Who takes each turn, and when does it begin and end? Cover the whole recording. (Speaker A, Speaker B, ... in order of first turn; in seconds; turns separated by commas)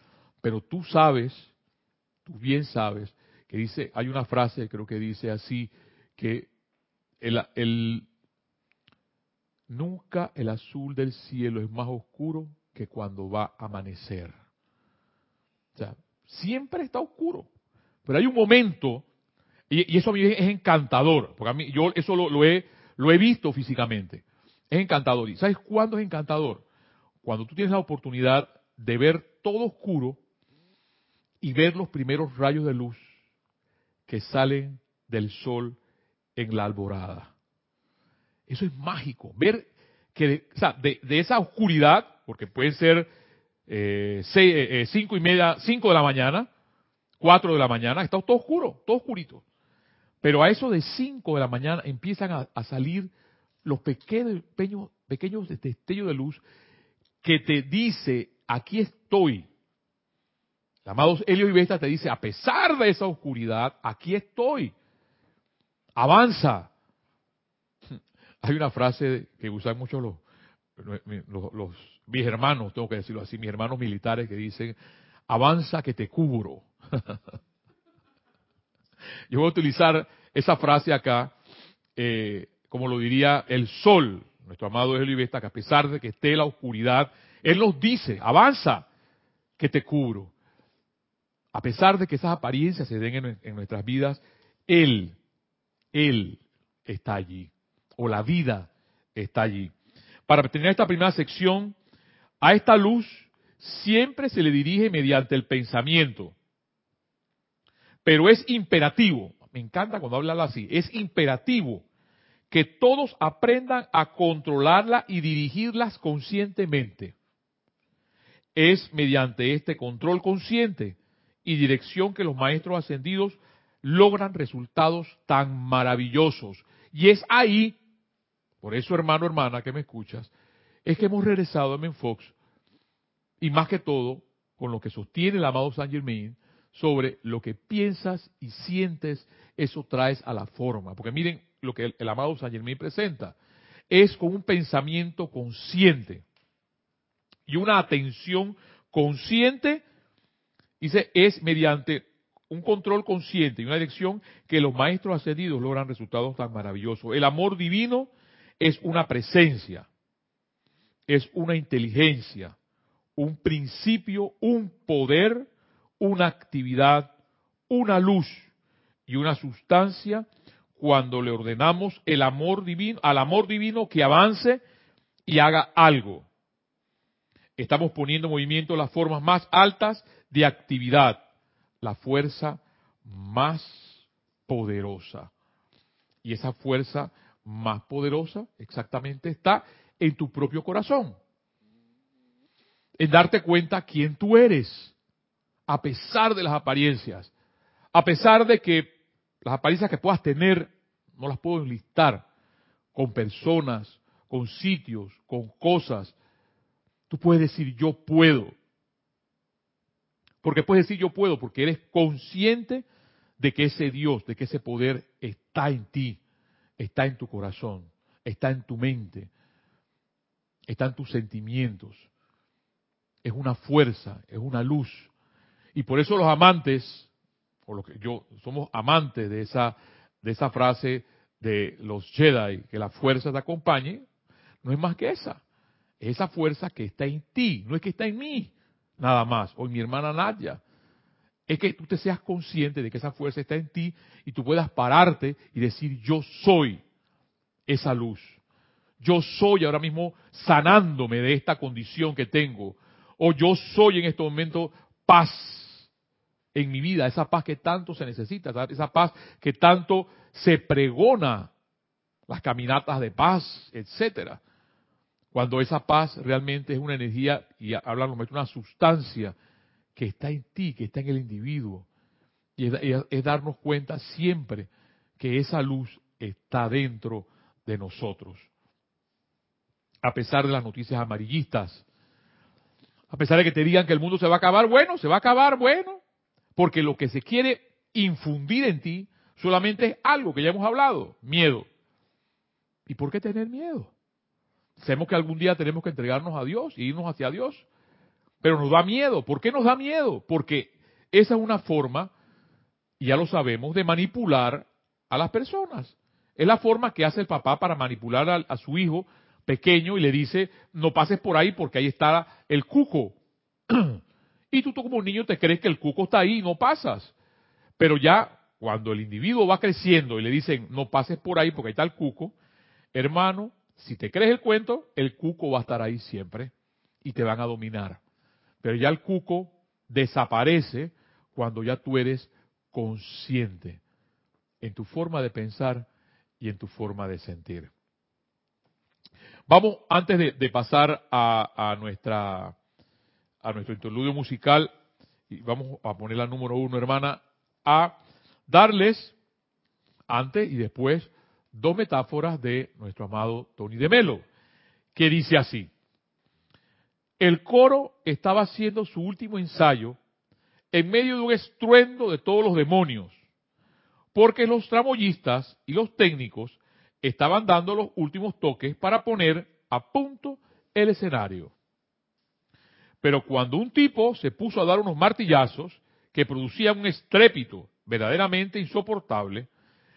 Speaker A: 0.4-1.5, Speaker A: 2.3-6.5, Speaker A: 7.2-8.1, Speaker A: 9.7-14.3, Speaker A: 15.8-17.5, Speaker A: 18.1-19.1, Speaker A: 19.7-26.6, Speaker A: 27.2-30.2, Speaker A: 31.4-33.0, Speaker A: 34.1-35.8, Speaker A: 36.4-37.3, Speaker A: 38.5-43.1, Speaker A: 43.7-46.5, Speaker A: 47.2-49.4, Speaker A: 50.2-53.1, Speaker A: 53.6-56.4, Speaker A: 57.2-59.5, Speaker A: 60.9-64.7, Speaker A: 66.0-66.7, Speaker A: 68.4-70.2, Speaker A: 70.8-74.8, Speaker A: 75.3-77.2, Speaker A: 79.3-81.3, Speaker A: 82.0-88.9, Speaker A: 89.6-90.3, Speaker A: 91.5-95.2, Speaker A: 95.9-99.7, Speaker A: 100.3-101.8, Speaker A: 102.4-106.3, Speaker A: 108.0-111.8, Speaker A: 112.5-117.1, Speaker A: 118.5-127.8, Speaker A: 128.6-130.3, Speaker A: 130.8-132.3, Speaker A: 133.4-143.4, Speaker A: 143.9-146.2, Speaker A: 147.5-149.8, Speaker A: 150.8-159.9, Speaker A: 161.1-162.6, Speaker A: 163.2-165.5, Speaker A: 166.0-167.1, Speaker A: 167.7-168.5, Speaker A: 169.1-174.6, Speaker A: 175.3-176.3, Speaker A: 177.6-181.2, Speaker A: 181.8-185.3, Speaker A: 186.2-191.2, Speaker A: 193.0-194.9, Speaker A: 195.7-197.3, Speaker A: 197.9-202.3, Speaker A: 202.9-206.2, Speaker A: 207.1-208.5, Speaker A: 210.4-212.8, Speaker A: 213.4-216.2, Speaker A: 216.8-219.3, Speaker A: 220.7-222.1, Speaker A: 223.2-225.1, Speaker A: 225.7-227.1, Speaker A: 227.7-234.0, Speaker A: 234.6-235.4, Speaker A: 236.0-240.6, Speaker A: 241.5-246.8, Speaker A: 247.7-248.4, Speaker A: 249.0-255.9, Speaker A: 256.5-261.5, Speaker A: 262.3-264.4, Speaker A: 265.3-269.4, Speaker A: 269.9-271.9, Speaker A: 272.6-278.5, Speaker A: 280.0-281.9, Speaker A: 283.1-286.0, Speaker A: 286.6-291.7, Speaker A: 292.9-293.9, Speaker A: 294.8-297.6, Speaker A: 298.4-302.1, Speaker A: 303.0-313.2, Speaker A: 313.7-314.0, Speaker A: 314.5-317.1, Speaker A: 317.8-322.4, Speaker A: 322.9-326.5, Speaker A: 327.0-328.0, Speaker A: 328.6-333.8, Speaker A: 334.6-335.9, Speaker A: 336.4-337.7, Speaker A: 339.5-342.6, Speaker A: 343.4-344.7, Speaker A: 345.3-348.0, Speaker A: 348.5-349.2, Speaker A: 350.1-354.2, Speaker A: 354.9-355.7, Speaker A: 357.2-360.0, Speaker A: 360.7-363.2, Speaker A: 364.1-371.5, Speaker A: 373.0-379.5